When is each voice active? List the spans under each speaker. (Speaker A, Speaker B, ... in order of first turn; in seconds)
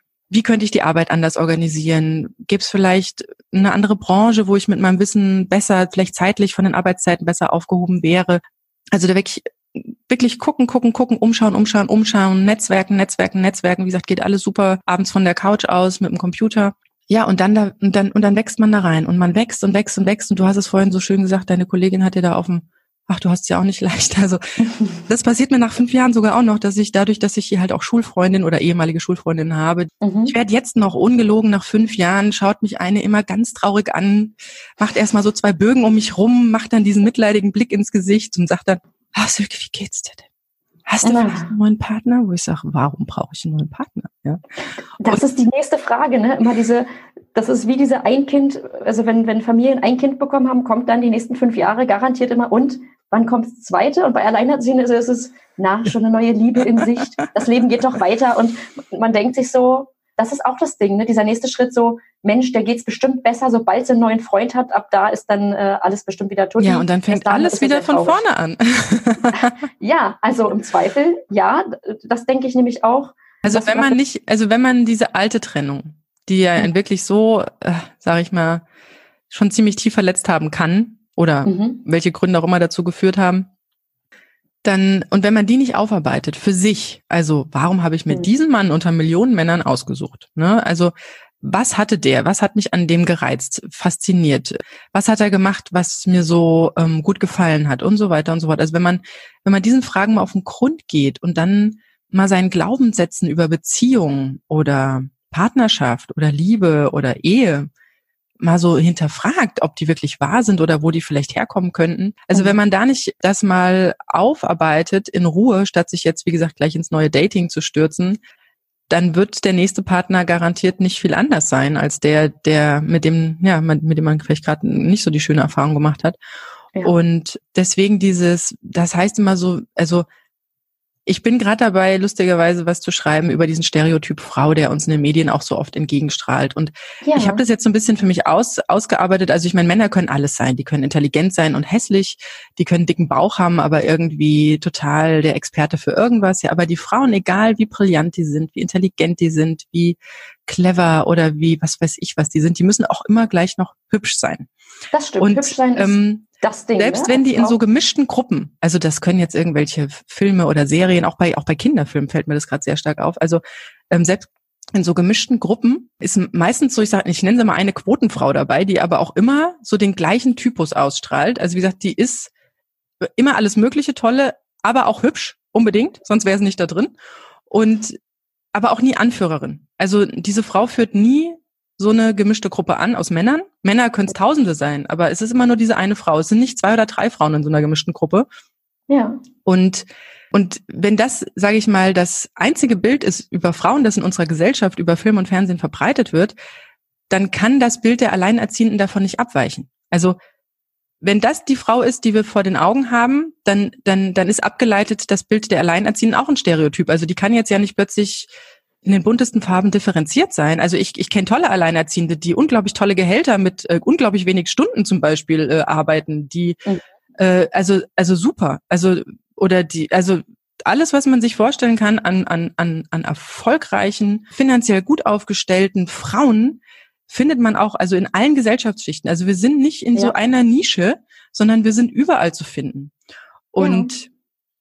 Speaker A: 0.3-8.4, 8.9-24.4, 25.1-40.2, 40.9-44.4, 66.6-69.5, 73.4-78.6, 79.3-83.5, 84.6-107.7, 108.4-118.2, 118.9-126.2, 126.8-130.1, 131.1-154.5, 155.2-172.3, 173.0-176.9, 177.5-178.0, 178.5-188.3, 189.4-196.3, 197.1-200.2, 201.0-208.3, 208.8-216.6, 217.2-232.9, 233.5-234.1
Speaker B: 24.6-25.0, 30.0-30.3, 41.0-41.5, 45.0-68.2, 69.3-74.0, 81.5-81.8, 137.0-137.4, 154.9-157.6, 188.9-189.2, 233.6-233.9